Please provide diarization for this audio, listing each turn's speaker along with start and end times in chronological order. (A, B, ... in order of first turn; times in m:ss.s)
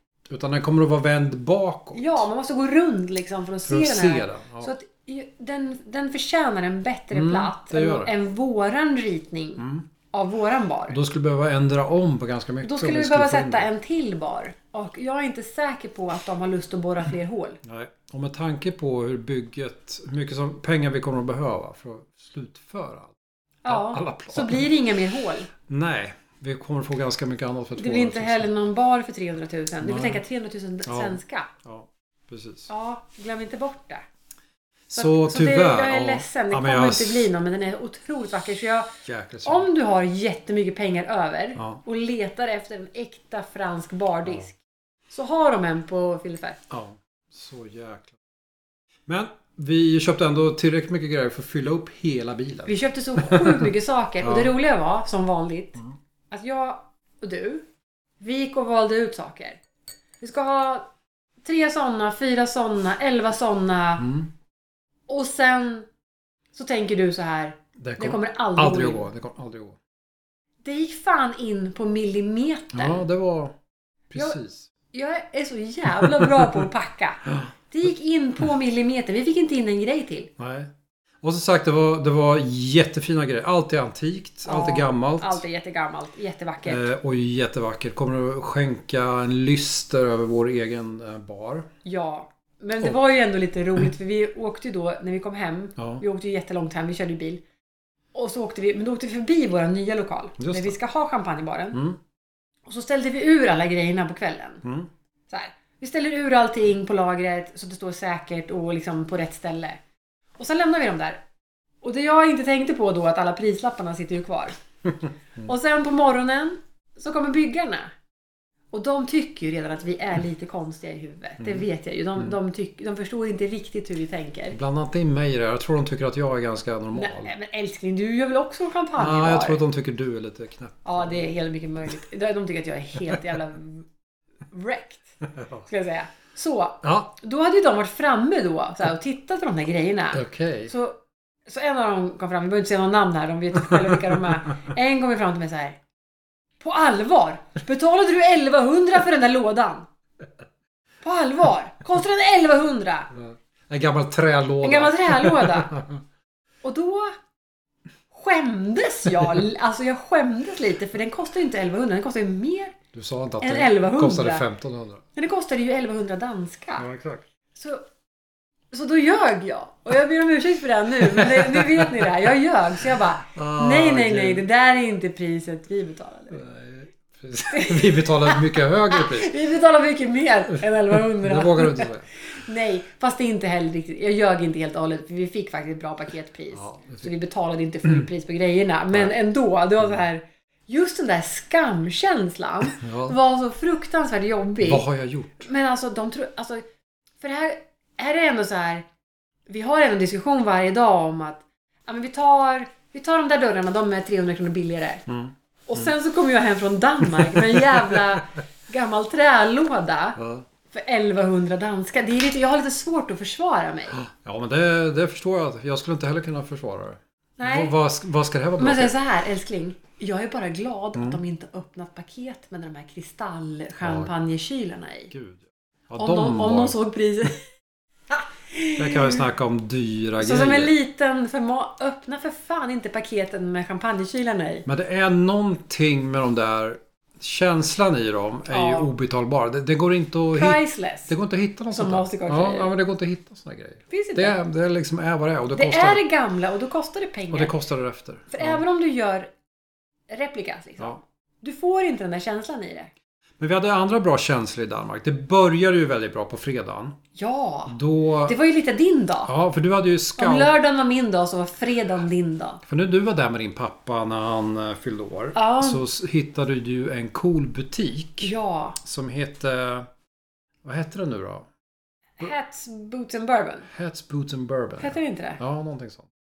0:00.3-0:02.2 A
0:01.9-0:11.0 B
0:03.6-0:04.7 A
0:07.1-0:08.1 A
0:09.6-0:09.8 A
0:10.9-0:13.7 A
0:12.6-0:17.6 B
0:17.6-0:23.1 A
0:23.6-0:25.5 B
0:23.7-0:24.7 A
0:25.7-0:28.5 A
0:27.8-0:31.5 B
0:29.8-0:30.2 A
0:30.8-0:32.7 A
0:32.7-0:34.0 B
0:34.9-0:38.9 B
0:34.9-0:37.3 A
0:39.0-0:39.7 A
0:39.4-0:44.6 B
0:41.6-0:41.8 A
0:45.1-0:46.6 B
0:46.7-0:48.2 A
0:49.1-0:53.7 A
0:52.7-0:55.8 B
0:54.2-0:54.5 A
0:56.3-0:57.6 B
0:58.2-0:59.6 B
1:00.2-1:00.9 B
1:01.4-1:04.0 B
1:04.0-1:04.3 A
1:05.1-1:05.9 B
1:06.5-1:09.0 B
1:07.8-1:09.8 A
1:10.6-1:13.0 B
1:12.7-1:13.5 A
1:14.1-1:14.7 A
1:14.9-1:20.3 B
1:20.4-1:20.7 A
1:21.2-1:25.4 A
1:24.4-1:26.9 B
1:26.6-1:31.7 A
1:31.8-1:37.4 B
1:35.8-1:36.0 A
1:38.1-1:41.8 B
1:40.4-1:40.8 A
1:41.7-1:42.0 A
1:42.6-1:44.6 B
1:44.6-1:44.9 A
1:45.3-1:49.8 B
1:50.4-1:51.2 B
1:51.8-1:54.6 B
1:55.4-1:57.9 B
1:58.7-2:04.6 B
2:04.5-2:07.3 A
2:06.9-2:09.6 B
2:09.0-2:11.1 A
2:10.8-2:13.8 B
2:14.5-2:15.0 B
2:15.2-2:15.7 A
2:15.7-2:25.8 B
2:16.8-2:17.1 A
2:20.1-2:20.7 A
2:26.6-2:29.8 B
2:31.0-2:33.1 B
2:33.1-2:36.0 A
2:34.6-2:35.7 B
2:36.6-2:37.1 B
2:38.1-2:42.7 B
2:42.9-2:45.0 A
2:43.4-2:44.4 B
2:45.1-2:46.8 B
2:46.8-2:47.2 A
2:47.5-2:47.8 B
2:48.7-2:56.4 B
2:51.0-2:51.9 A
2:53.3-2:54.4 A
2:56.3-2:59.4 A
2:57.5-3:14.8 B
3:00.9-3:02.1 A
3:06.5-3:07.1 A
3:12.8-3:13.2 A
3:14.6-3:15.5 A
3:15.4-3:16.6 B
3:17.2-3:18.8 B
3:19.5-3:25.0 B
3:25.1-3:25.9 A
3:25.6-3:30.2 B
3:27.3-3:27.8 A
3:30.2-3:30.4 A
3:30.7-3:34.0 B
3:33.9-3:38.9 A
3:37.4-3:37.7 B
3:38.6-3:45.1 B
3:43.8-3:44.1 A
3:45.1-3:46.8 A
3:46.0-3:47.4 B
3:48.1-3:49.2 B
3:48.8-3:50.7 A
3:50.2-3:54.6 B
3:54.6-4:06.0 A
3:58.5-3:58.9 B
4:00.3-4:01.1 B
4:01.7-4:02.7 B
4:03.9-4:04.4 B
4:05.5-4:07.5 B
4:07.3-4:08.6 A
4:08.3-4:09.3 B
4:10.1-4:12.9 B
4:13.4-4:17.0 A
4:17.1-4:19.3 B
4:17.7-4:18.4 A
4:19.2-4:20.5 A
4:20.2-4:22.6 B
4:22.6-4:29.9 A
4:25.3-4:25.8 B
4:28.2-4:28.8 B
4:30.6-4:31.5 A
4:32.2-4:33.7 B
4:33.7-4:36.1 A
4:34.8-4:35.4 B